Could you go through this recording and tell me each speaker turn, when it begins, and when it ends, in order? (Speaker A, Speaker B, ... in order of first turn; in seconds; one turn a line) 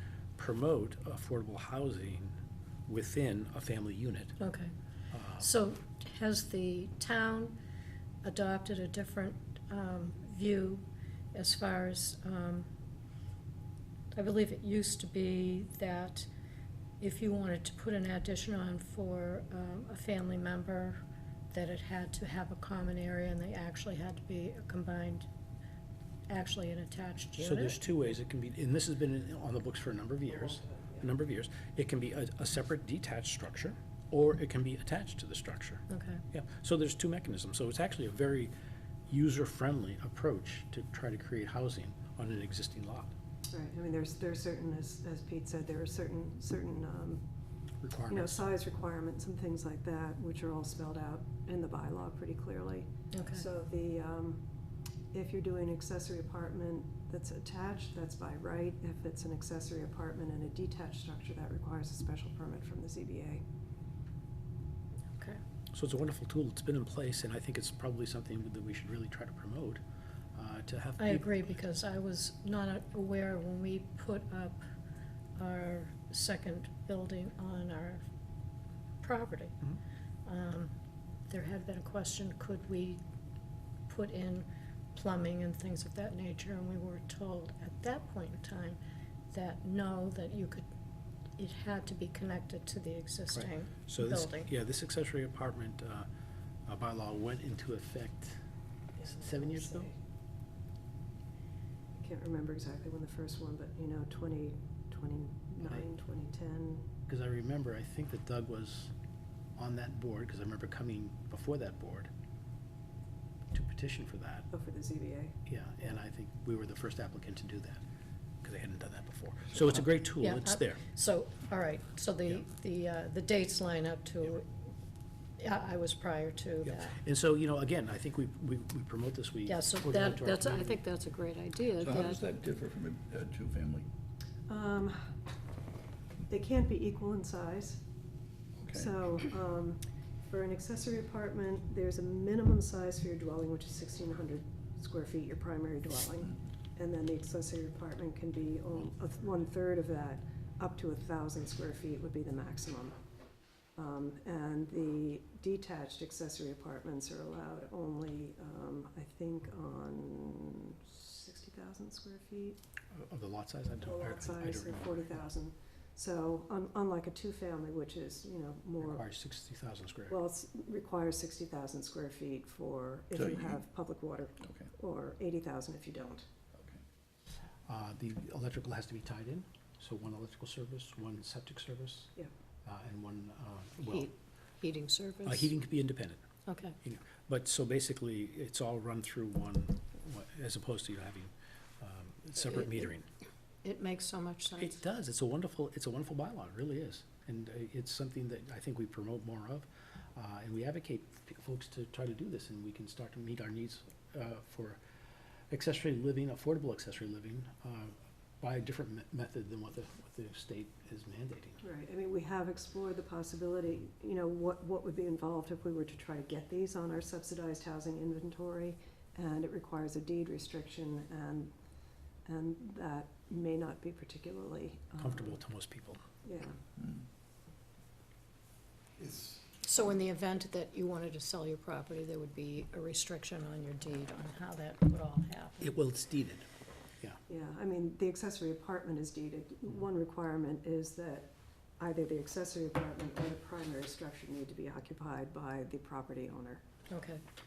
Speaker A: 0.4-2.4
Speaker A: 2.9-4.3
Speaker B: 4.4-4.7
Speaker A: 5.1-5.5
Speaker B: 5.4-7.6
Speaker B: 8.2-12.7
Speaker B: 14.1-16.3
Speaker B: 17.0-25.3
Speaker B: 26.3-27.8
Speaker A: 27.4-38.5
Speaker C: 30.3-31.1
Speaker B: 35.9-36.2
Speaker A: 39.1-43.1
Speaker C: 43.5-47.2
Speaker A: 47.8-48.4
Speaker C: 48.1-54.4
Speaker B: 53.1-53.4
Speaker C: 55.1-63.4
Speaker A: 65.7-69.8
Speaker A: 70.3-71.5
Speaker B: 71.0-74.6
Speaker B: 75.3-78.0
Speaker B: 79.0-79.5
Speaker B: 80.2-80.7
Speaker B: 81.3-83.0
Speaker B: 83.9-88.8
Speaker B: 89.3-90.7
Speaker B: 91.4-94.5
Speaker A: 93.3-96.1
Speaker A: 96.7-98.4
Speaker C: 99.0-100.0
Speaker A: 99.0-99.9
Speaker C: 101.9-106.9
Speaker A: 107.1-108.9
Speaker A: 109.6-112.1
Speaker A: 113.5-114.5
Speaker C: 114.5-115.4
Speaker A: 115.5-117.8
Speaker A: 118.4-120.8
Speaker B: 120.2-124.5
Speaker B: 125.4-127.0
Speaker A: 126.6-130.8
Speaker B: 129.4-132.2
Speaker D: 131.8-133.8
Speaker C: 134.5-135.1
Speaker C: 136.3-137.8
Speaker D: 138.6-138.9
Speaker C: 138.7-153.0
Speaker C: 153.8-162.6
Speaker A: 162.9-165.2
Speaker C: 163.8-169.0
Speaker A: 168.8-170.2
Speaker C: 170.1-176.3
Speaker D: 173.1-173.6
Speaker D: 174.4-174.7
Speaker D: 176.5-176.8
Speaker A: 177.7-182.1
Speaker A: 182.6-184.1
Speaker B: 183.8-185.5
Speaker A: 185.2-186.2
Speaker B: 186.4-186.8
Speaker A: 186.8-193.1
Speaker B: 192.5-192.9
Speaker B: 193.6-194.8
Speaker A: 194.6-204.8
Speaker A: 205.5-211.6
Speaker C: 211.6-221.5
Speaker C: 222.2-225.4
Speaker A: 225.0-226.0
Speaker C: 226.2-226.6
Speaker B: 229.6-235.7
Speaker A: 235.6-236.4
Speaker C: 237.3-246.6
Speaker B: 246.9-247.2